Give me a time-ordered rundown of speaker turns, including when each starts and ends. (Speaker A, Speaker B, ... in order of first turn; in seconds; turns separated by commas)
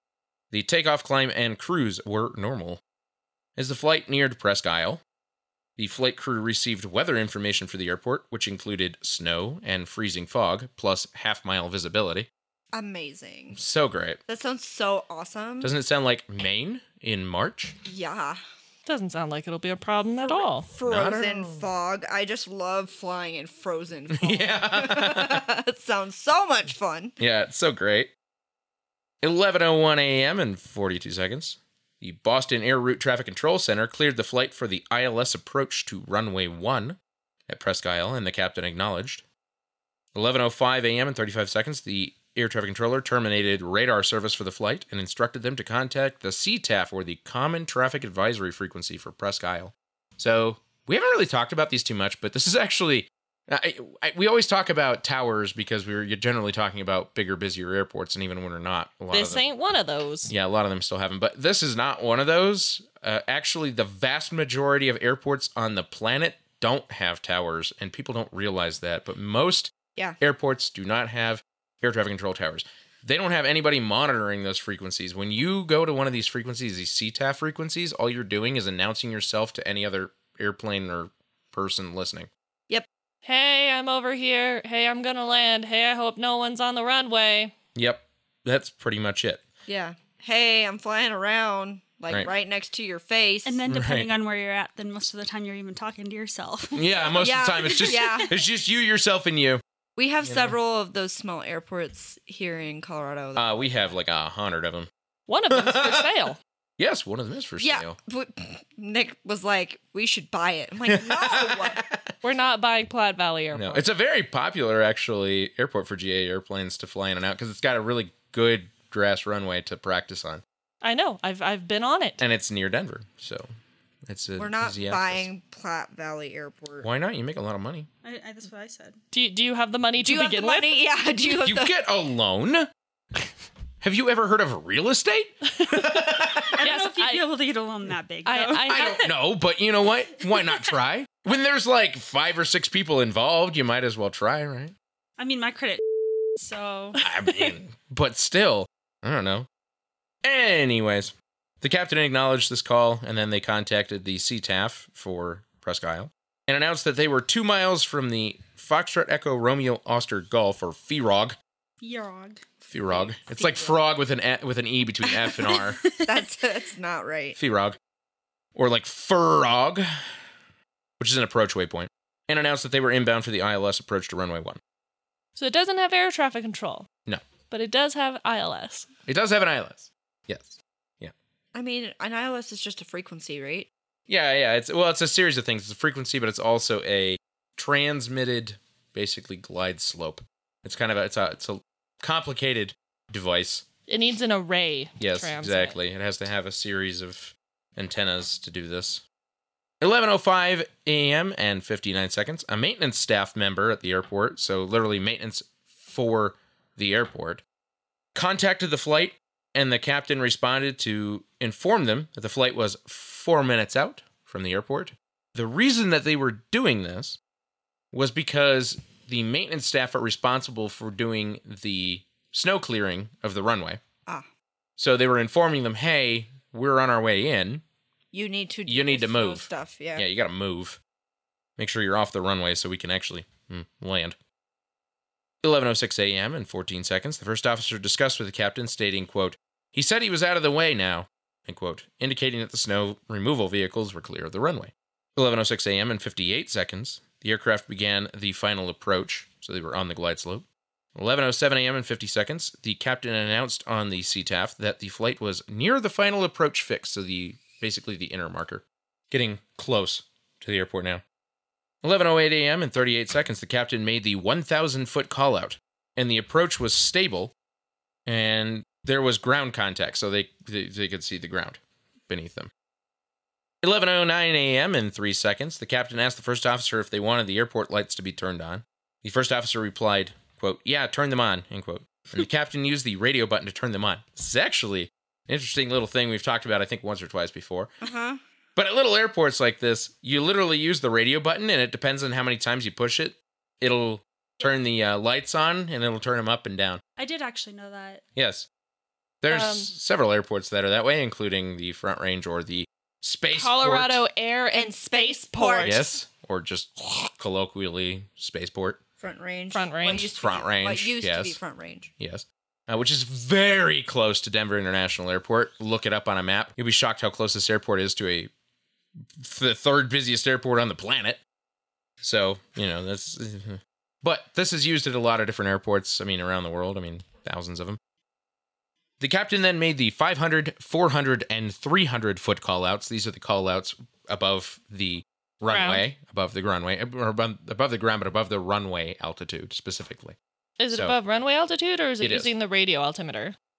Speaker A: 0.5-2.8, Speaker A: 3.6-5.0, Speaker A: 5.8-12.3, Speaker B: 12.7-13.6, Speaker A: 13.5-14.2, Speaker B: 14.3-15.7, Speaker A: 15.6-17.8, Speaker B: 17.9-18.4, Speaker C: 18.9-20.7, Speaker B: 20.2-27.1, Speaker A: 20.8-21.6, Speaker A: 24.1-25.5, Speaker A: 27.2-28.1, Speaker A: 29.2-37.0, Speaker A: 37.5-39.2, Speaker A: 40.1-59.5, Speaker C: 59.1-60.3, Speaker A: 60.3-82.3, Speaker C: 83.2-87.5, Speaker A: 87.8-89.4, Speaker B: 89.7-93.6, Speaker D: 93.5-98.3, Speaker A: 93.7-94.1, Speaker A: 96.8-99.6, Speaker B: 97.2-98.3, Speaker B: 100.0-103.5, Speaker A: 100.2-100.5, Speaker A: 103.4-104.9, Speaker C: 105.3-106.4, Speaker A: 105.5-106.1, Speaker A: 106.8-108.0, Speaker B: 107.6-111.8, Speaker A: 110.9-112.1, Speaker C: 112.2-113.8, Speaker A: 113.5-120.4, Speaker C: 120.8-122.2, Speaker A: 122.2-123.5, Speaker A: 124.1-125.3, Speaker B: 124.4-126.9, Speaker A: 126.8-127.9, Speaker D: 128.0-129.0, Speaker C: 129.1-130.7, Speaker B: 130.0-131.7, Speaker A: 131.4-132.7, Speaker A: 133.8-136.6, Speaker C: 135.6-137.2, Speaker D: 136.6-139.1, Speaker C: 138.3-139.1, Speaker A: 138.7-144.7, Speaker D: 145.2-145.8, Speaker D: 146.3-147.0, Speaker A: 147.0-149.5, Speaker A: 150.2-161.4, Speaker D: 161.8-162.4, Speaker A: 162.7-165.8, Speaker D: 165.5-166.2, Speaker B: 166.0-167.4, Speaker A: 167.4-167.8, Speaker A: 168.6-169.9, Speaker A: 171.0-174.6, Speaker C: 175.4-176.9, Speaker C: 177.5-178.9, Speaker A: 179.1-181.1, Speaker B: 181.5-183.7, Speaker A: 184.1-193.7, Speaker C: 193.9-195.8, Speaker A: 195.0-199.0, Speaker A: 199.8-207.4, Speaker A: 208.2-217.2, Speaker A: 217.9-223.8, Speaker A: 224.8-227.6, Speaker B: 228.1-230.0, Speaker A: 228.7-230.8, Speaker A: 231.6-234.2, Speaker A: 235.4-261.0, Speaker A: 261.8-267.3, Speaker A: 268.1-272.5, Speaker A: 273.6-287.7, Speaker B: 287.8-288.2, Speaker A: 288.6-296.8, Speaker D: 297.0-298.0, Speaker A: 298.2-298.5, Speaker A: 299.2-304.0, Speaker C: 299.3-299.7, Speaker C: 303.3-305.9, Speaker B: 304.5-305.8, Speaker A: 305.6-308.8, Speaker B: 309.0-311.9, Speaker C: 309.5-310.1, Speaker A: 310.2-311.4, Speaker A: 312.0-318.3, Speaker A: 319.2-321.2, Speaker A: 322.0-327.8, Speaker A: 329.0-340.2, Speaker C: 335.5-335.8, Speaker C: 340.6-343.4, Speaker A: 340.7-341.0, Speaker A: 342.0-342.3